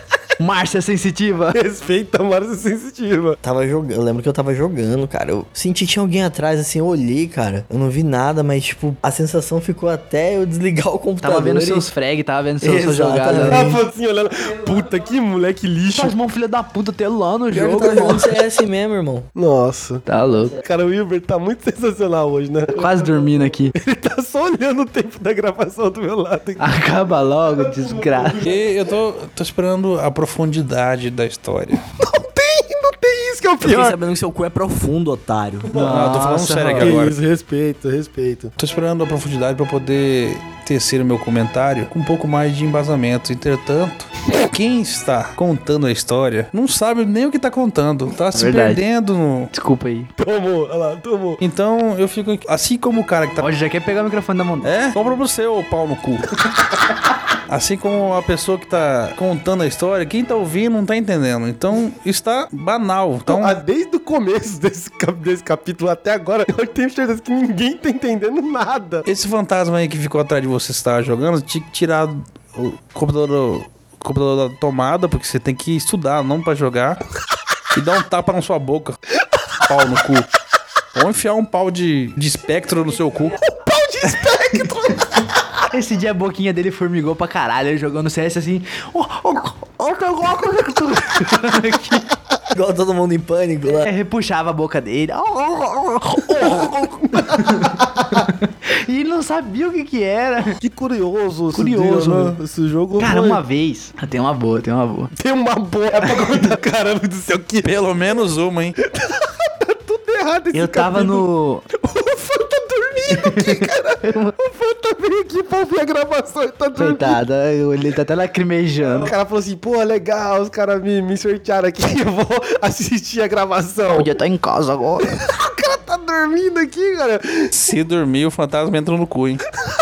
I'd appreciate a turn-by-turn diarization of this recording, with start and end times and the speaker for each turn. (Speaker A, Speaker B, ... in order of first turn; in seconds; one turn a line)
Speaker A: 0.4-1.6
Speaker B: 1.5-3.4
Speaker C: 3.4-11.9
Speaker A: 11.2-13.6
Speaker C: 12.6-13.8
Speaker B: 13.4-16.1
Speaker A: 15.9-18.4
Speaker C: 17.5-19.3
Speaker B: 19.3-20.0
Speaker A: 20.1-20.6
Speaker B: 20.6-23.0
Speaker A: 22.7-23.7
Speaker B: 23.7-26.7
Speaker A: 26.6-28.4
Speaker B: 27.4-28.6
Speaker D: 28.4-31.8
Speaker B: 31.9-34.0
Speaker C: 33.6-35.8
Speaker A: 35.7-37.0
Speaker D: 35.8-37.2
Speaker B: 36.8-38.5
Speaker D: 38.6-49.5
Speaker A: 48.3-48.8
Speaker A: 49.5-50.1
Speaker B: 50.2-51.4
Speaker D: 51.4-53.5
Speaker A: 53.4-54.7
Speaker D: 54.6-56.4
Speaker D: 57.5-63.6
Speaker B: 63.3-69.0
Speaker D: 69.0-77.0
Speaker D: 77.7-79.0
Speaker D: 79.6-80.3
Speaker D: 80.9-83.4
Speaker B: 83.4-85.4
Speaker A: 85.7-92.1
Speaker C: 92.5-93.9
Speaker A: 93.7-96.7
Speaker B: 96.3-98.2
Speaker A: 97.3-100.6
Speaker B: 100.6-103.4
Speaker A: 101.5-102.3
Speaker A: 103.0-105.1
Speaker B: 105.1-107.9
Speaker D: 107.6-108.8
Speaker B: 108.8-117.2
Speaker A: 110.5-111.6
Speaker A: 113.1-114.3
Speaker A: 116.8-119.1
Speaker B: 118.8-124.1
Speaker A: 123.9-125.1
Speaker B: 125.0-127.5
Speaker D: 127.5-129.4